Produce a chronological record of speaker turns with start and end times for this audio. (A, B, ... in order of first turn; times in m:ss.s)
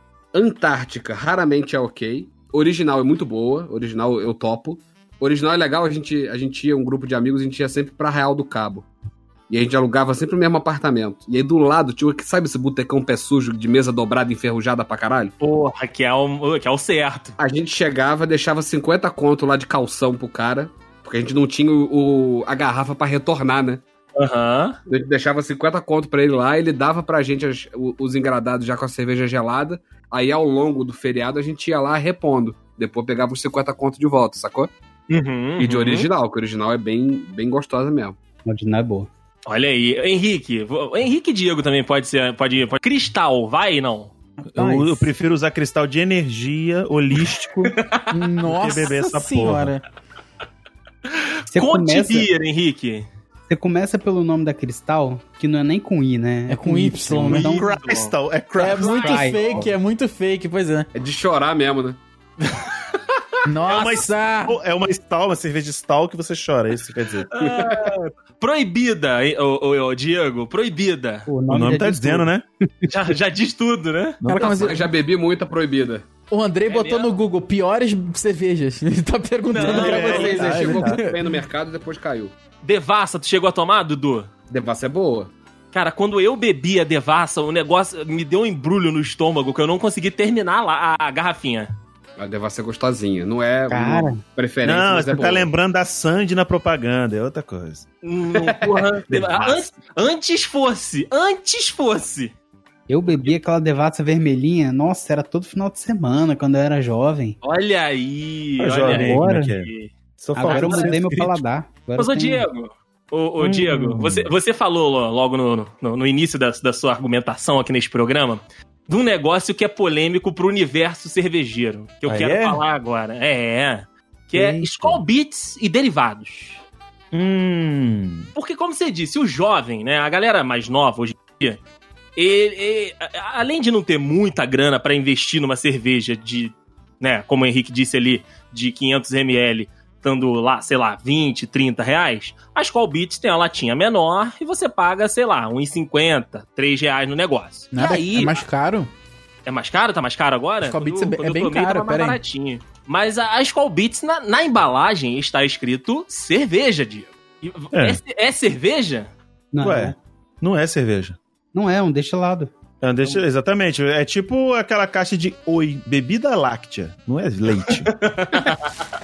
0:00.3-0:08.9 A
0:09.5-0:15.3 A
0:15.4-0:17.4 B
0:17.4-0:23.8 A
0:24.1-0:24.8 B
0:24.9-0:34.7 A
0:35.1-0:36.1 B
0:35.6-0:38.2 A
0:38.4-0:39.1 C
0:39.5-0:44.1 B
0:44.5-0:47.7 D
0:44.6-0:45.0 C
0:47.6-0:48.0 B
0:48.1-0:49.8 E
0:48.4-0:49.7 D
0:51.1-0:53.1 B
0:51.5-0:52.3 C
0:53.5-0:57.8 C
0:56.5-0:57.6 E
0:57.2-0:58.1 B
0:57.4-0:59.2 D
0:58.6-1:00.9 E
0:58.8-0:59.6 B
0:58.8-0:59.7 C
1:00.9-1:02.0 A
1:02.4-1:03.2 B
1:03.4-1:04.6 E
1:03.6-1:07.3 D
1:07.3-1:11.3 B
1:07.4-1:07.9 A
1:11.3-1:12.9 C
1:11.5-1:12.4 D
1:12.8-1:14.2 B
1:14.2-1:14.8 D
1:14.2-1:14.9 E
1:14.4-1:16.0 A
1:16.3-1:21.2 E
1:16.7-1:17.1 B
1:19.5-1:20.5 B
1:19.6-1:21.0 D
1:19.6-1:22.3 A
1:22.6-1:24.3 B
1:24.5-1:25.3 A
1:25.7-1:31.7 B
1:32.2-1:35.5 A
1:33.7-1:34.2 C
1:34.6-1:37.8 D
1:38.0-1:42.3 B
1:38.4-1:38.8 A
1:39.1-1:39.7 D
1:42.9-1:47.4 C
1:47.4-1:51.0 B
1:48.6-1:51.4 D
1:48.8-1:49.5 C
1:50.3-1:52.4 C
1:52.0-2:06.6 B
1:53.4-1:54.3 D
2:02.0-2:02.6 D
2:04.6-2:05.0 D
2:07.1-2:08.3 D
2:08.3-2:11.6 B
2:12.2-2:28.4 B
2:27.7-2:28.9 E
2:29.4-2:39.1 B
2:30.6-2:32.2 E
2:37.7-2:38.0 D
2:39.5-2:39.9 C
2:39.6-2:41.2 D
2:41.5-2:42.5 C
2:42.8-2:48.0 D
2:47.7-2:48.7 B